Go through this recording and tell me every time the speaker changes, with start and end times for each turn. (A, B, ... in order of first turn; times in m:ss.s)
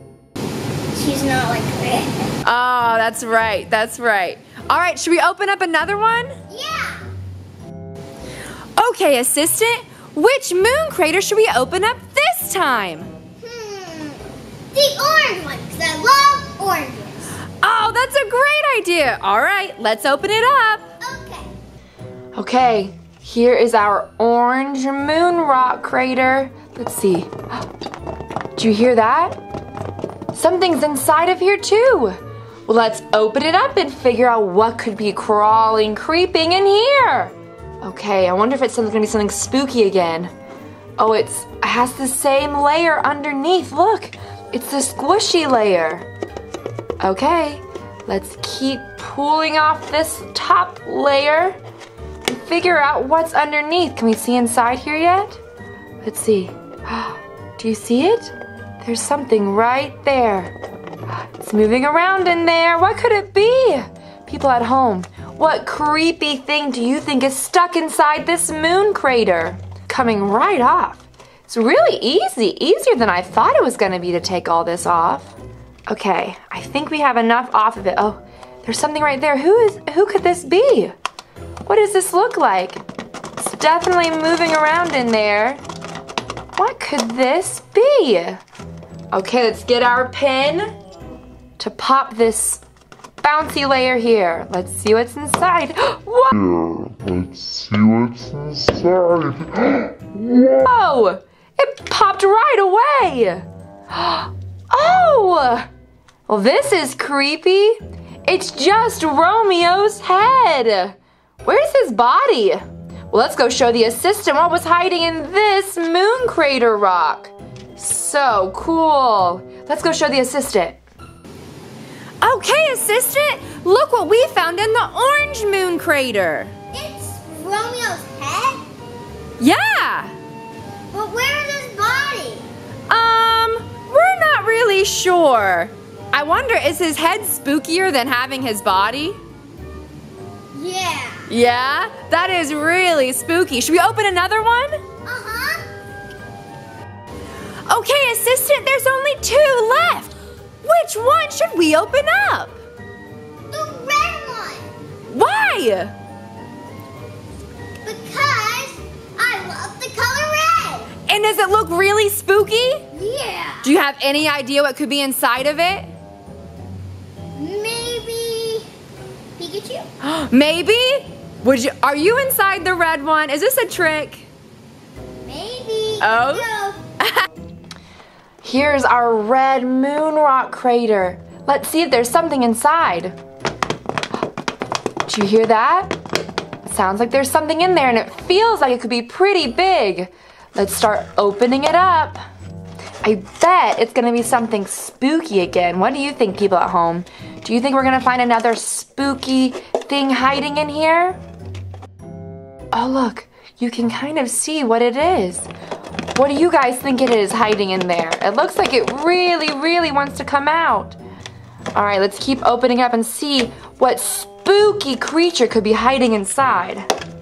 0:00.9-0:02.3 A
0:02.4-0:06.3 B
0:06.5-0:07.0 A
0:08.8-0:13.1 B
0:13.4-0:17.4 A
0:17.6-0:20.9 B
0:21.0-0:21.5 A
0:22.3-0:27.3 B
0:28.6-0:29.4 B
0:30.3-0:40.3 B
0:41.0-0:46.1 B
0:47.0-0:51.6 B
0:52.3-0:55.4 B
0:56.0-1:00.5 B
1:01.4-1:15.3 B
1:15.9-1:20.9 B
1:21.7-1:22.8 B
1:23.4-1:25.6 B
1:26.6-1:28.4 B
1:29.1-1:30.7 B
1:31.6-1:32.6 B
1:33.2-1:36.3 B
1:36.4-1:40.6 C
1:40.6-1:45.7 B
1:46.3-2:00.8 B
2:02.2-2:06.5 B
2:06.7-2:08.6 A
2:09.4-2:10.1 B
2:10.9-2:12.5 A
2:12.9-2:19.2 B
2:20.5-2:21.3 A
2:21.3-2:24.8 B
2:25.0-2:25.6 A
2:27.7-2:32.6 B
2:33.5-2:34.7 A
2:35.1-2:35.9 B
2:37.8-2:40.9 A
2:41.1-2:42.8 B
2:42.9-2:43.7 A
2:43.6-2:45.9 B
2:47.3-2:48.7 A
2:49.4-2:49.9 A
2:50.0-2:54.3 B
2:55.2-2:56.8 A
2:56.0-2:56.5 B
2:58.4-3:03.2 B
3:05.1-3:06.0 B
3:06.7-3:12.2 B
3:13.0-3:21.2 B
3:22.7-3:25.5 B
3:26.2-3:31.0 B
3:31.7-3:36.9 B